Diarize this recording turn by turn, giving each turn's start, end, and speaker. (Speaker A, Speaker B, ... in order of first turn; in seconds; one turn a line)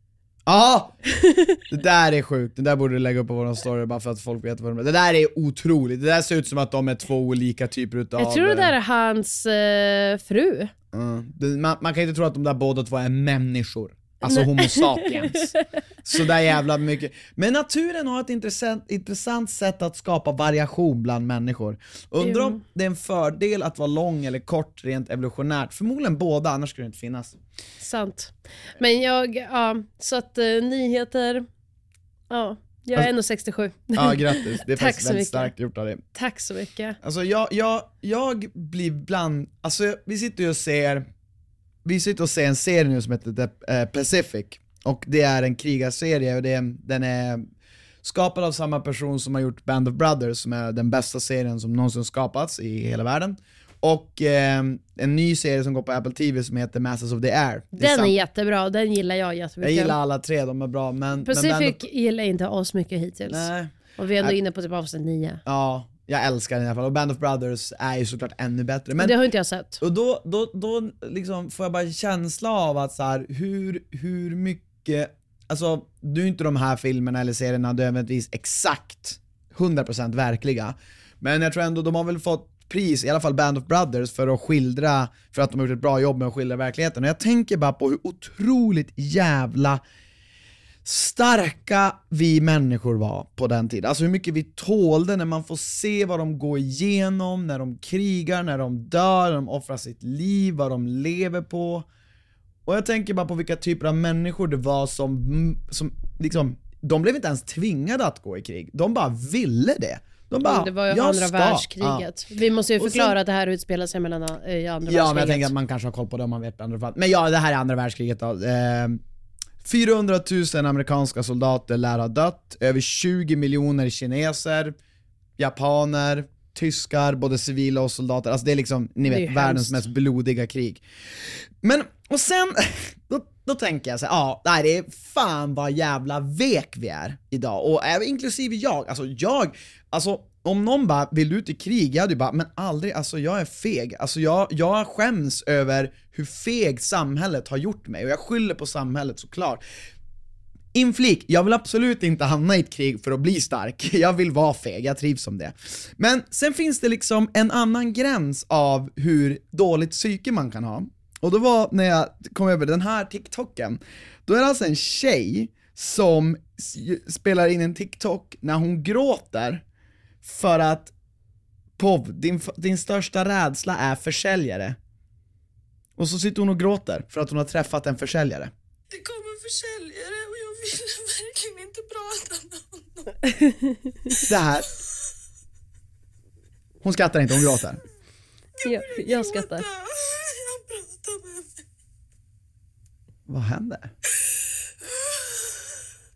Speaker A: 0.5-1.0
Speaker B: 1.1-1.6
Speaker A: 1.7-8.7
Speaker B: 8.2-10.7
Speaker A: 10.9-15.5
Speaker B: 14.2-15.6
Speaker A: 16.0-27.4
Speaker B: 22.2-22.6
Speaker B: 27.8-31.5
Speaker B: 32.3-35.5
Speaker A: 33.9-36.0
Speaker B: 36.1-37.0
Speaker A: 37.0-41.1
Speaker A: 41.8-47.5
Speaker A: 48.0-58.1
Speaker B: 57.8-60.0
Speaker A: 59.6-61.8
Speaker B: 61.2-65.4
Speaker A: 63.3-64.4
Speaker A: 65.5-69.2
Speaker B: 69.0-69.8
Speaker A: 69.8-89.8
Speaker A: 90.8-101.8
Speaker A: 102.7-112.1
Speaker B: 110.4-115.5
Speaker A: 112.8-113.2
Speaker A: 114.8-119.0
Speaker A: 119.6-124.8
Speaker A: 125.4-149.6
Speaker B: 129.0-129.8
Speaker A: 150.7-169.6
Speaker A: 170.2-170.9
Speaker A: 171.8-174.8
Speaker A: 176.0-178.5
Speaker C: 179.0-181.9
Speaker B: 183.2-184.2
Speaker A: 184.2-184.7
Speaker A: 186.8-187.8
Speaker B: 188.6-189.7
Speaker C: 190.4-191.4
Speaker A: 193.3-193.9